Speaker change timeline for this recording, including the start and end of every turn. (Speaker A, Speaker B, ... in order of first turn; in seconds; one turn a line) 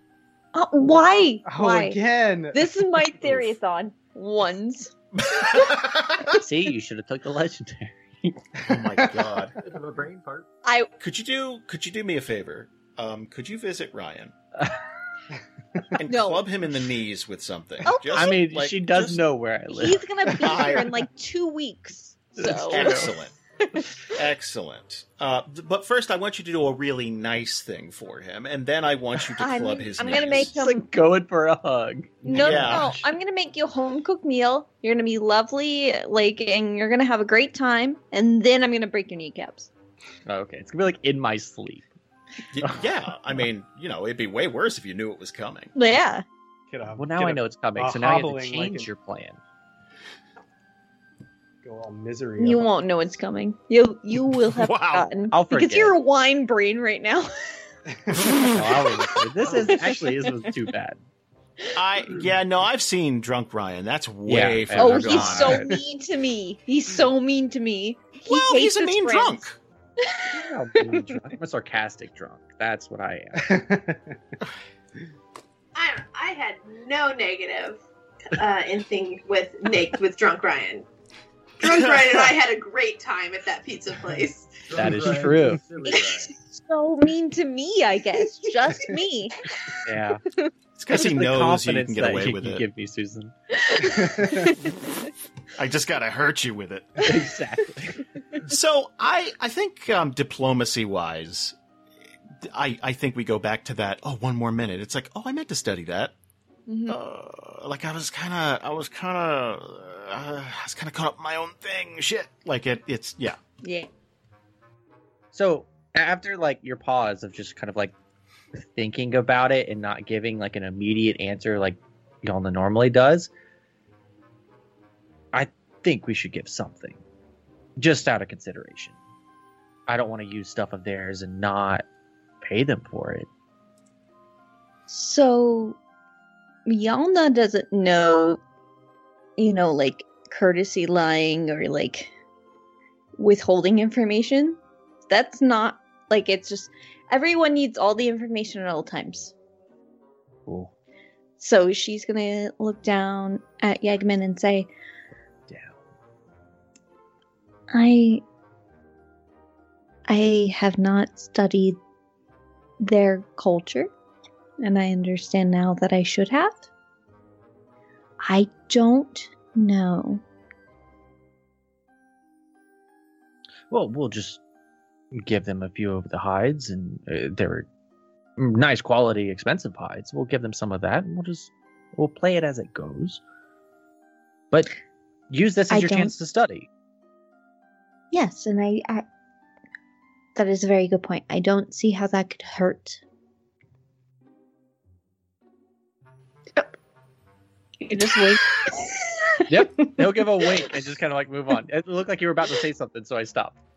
Speaker A: 0.5-2.0
Speaker B: 1.4-2.6
Speaker A: 2.5-5.7
Speaker C: 5.3-6.3
Speaker D: 6.3-8.4
Speaker C: 8.6-9.5
Speaker B: 8.7-9.5
Speaker E: 9.6-10.5
Speaker C: 11.0-14.3
Speaker C: 15.9-19.2
Speaker A: 16.1-16.4
Speaker A: 17.9-18.4
Speaker D: 18.1-20.8
Speaker A: 19.7-23.1
Speaker C: 20.2-20.9
Speaker D: 22.4-23.1
Speaker C: 22.7-23.4
Speaker A: 23.7-24.1
Speaker C: 24.0-30.5
Speaker A: 29.4-30.8
Speaker D: 30.2-32.9
Speaker A: 32.2-39.7
Speaker C: 32.3-33.0
Speaker D: 40.2-41.9
Speaker C: 42.5-45.7
Speaker A: 45.8-46.2
Speaker B: 46.7-48.9
Speaker D: 47.0-49.4
Speaker B: 51.6-52.7
Speaker A: 52.4-57.6
Speaker C: 54.5-55.1
Speaker D: 55.3-56.0
Speaker C: 58.2-58.9
Speaker D: 58.2-61.0
Speaker C: 61.7-65.6
Speaker D: 64.2-65.7
Speaker A: 64.7-69.5
Speaker B: 65.4-65.7
Speaker C: 68.2-69.6
Speaker A: 70.0-71.1
Speaker D: 70.3-73.6
Speaker B: 73.4-74.1
Speaker F: 75.7-80.9
Speaker F: 81.6-84.7
Speaker C: 81.6-82.2
Speaker E: 84.6-86.3
Speaker D: 84.7-85.6
Speaker A: 85.8-89.4
Speaker D: 89.8-90.2
Speaker C: 90.8-92.6
Speaker D: 90.9-93.3
Speaker A: 93.6-94.7
Speaker B: 93.9-94.5
Speaker C: 95.5-97.1
Speaker D: 97.0-98.1
Speaker C: 98.4-101.5
Speaker C: 102.4-106.1
Speaker A: 106.7-107.0
Speaker C: 106.9-113.4
Speaker A: 113.6-113.9
Speaker D: 115.3-117.9
Speaker D: 118.5-123.3
Speaker D: 125.3-127.0
Speaker D: 127.8-128.9
Speaker D: 129.9-131.8
Speaker D: 132.4-133.3
Speaker A: 134.9-135.8
Speaker A: 136.7-138.4
Speaker A: 139.4-142.1
Speaker A: 143.2-149.3
Speaker D: 150.5-150.7
Speaker A: 151.4-154.7
Speaker D: 155.5-155.8
Speaker A: 157.7-158.2
Speaker A: 160.1-161.8
Speaker A: 162.8-163.9
Speaker A: 164.6-166.7
Speaker A: 168.2-170.2
Speaker D: 173.7-174.4
Speaker D: 175.1-177.7
Speaker D: 178.4-183.2
Speaker D: 184.5-184.8
Speaker D: 185.3-186.7
Speaker A: 185.7-186.1
Speaker A: 188.1-189.0
Speaker A: 190.3-193.0
Speaker A: 197.8-198.4
Speaker D: 199.5-203.5